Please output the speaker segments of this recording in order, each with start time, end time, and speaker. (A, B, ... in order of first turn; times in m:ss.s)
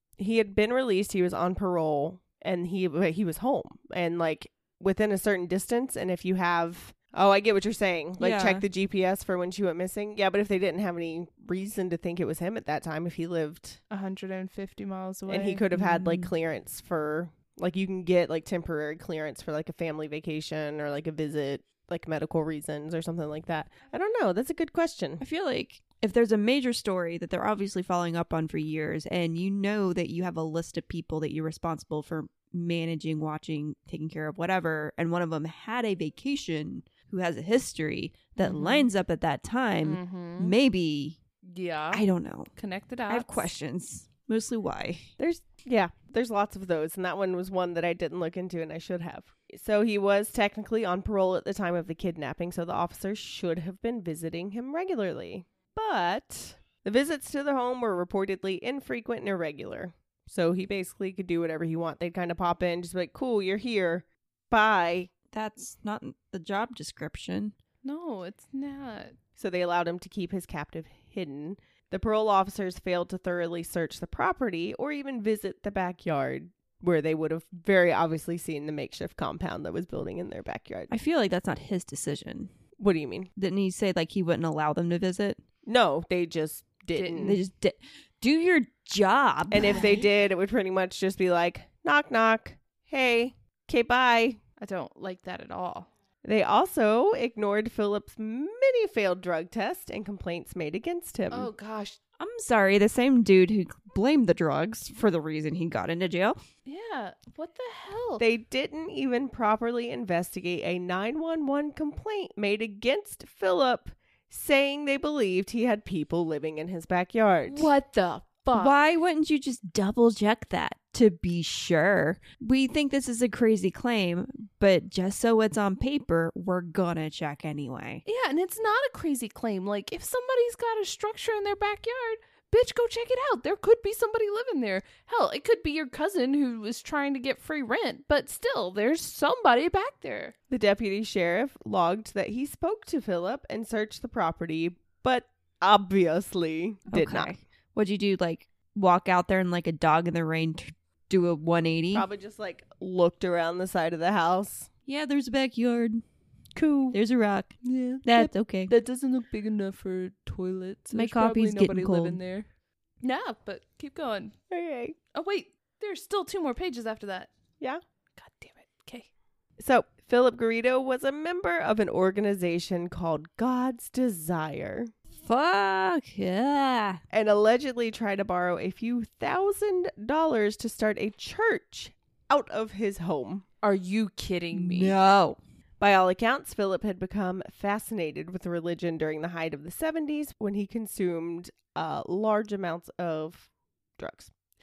0:00.2-0:13.8 A
0:08.2-0:08.6 B
0:13.9-0:15.6 C
0:15.3-0:25.2 A
0:15.7-0:16.3 B
0:25.2-0:41.2 B
0:38.4-0:38.9 C
0:39.8-0:40.6 C
0:41.5-0:43.5 C
0:41.9-0:42.6 B
0:43.1-0:45.1 B
0:45.2-1:05.1 A
1:05.3-1:07.6 B
1:07.8-1:09.2 C
1:09.4-1:20.9 A
1:20.9-1:22.5 B
1:22.8-1:23.3 A
1:23.4-1:25.4 B
1:25.7-1:27.4 A
1:27.0-1:27.3 C
1:27.2-1:29.9 B
1:29.5-1:34.4 A
1:34.6-1:35.9 C
1:36.2-1:41.5 A
1:41.3-1:42.0 C
1:42.2-1:46.4 B
1:46.7-1:48.2 C
1:48.2-1:57.7 A
1:57.5-1:58.7 C
1:58.5-2:08.0 B
2:08.1-2:20.3 C
2:20.5-2:27.3 A
2:26.9-2:32.1 B
2:31.9-2:34.7 A
2:34.9-2:36.0 B
2:36.6-2:37.0 A
2:36.9-2:38.7 B
2:37.6-2:42.5 C
2:40.9-2:42.2 B
2:43.0-2:44.4 C
2:44.5-2:45.0 A
2:45.1-2:47.3 C
2:48.2-2:49.1 C
2:49.6-2:54.9 A
2:55.2-2:57.0 B
2:57.1-3:03.4 A
3:03.6-3:05.0 C
3:04.5-3:05.4 B
3:05.8-3:14.3 A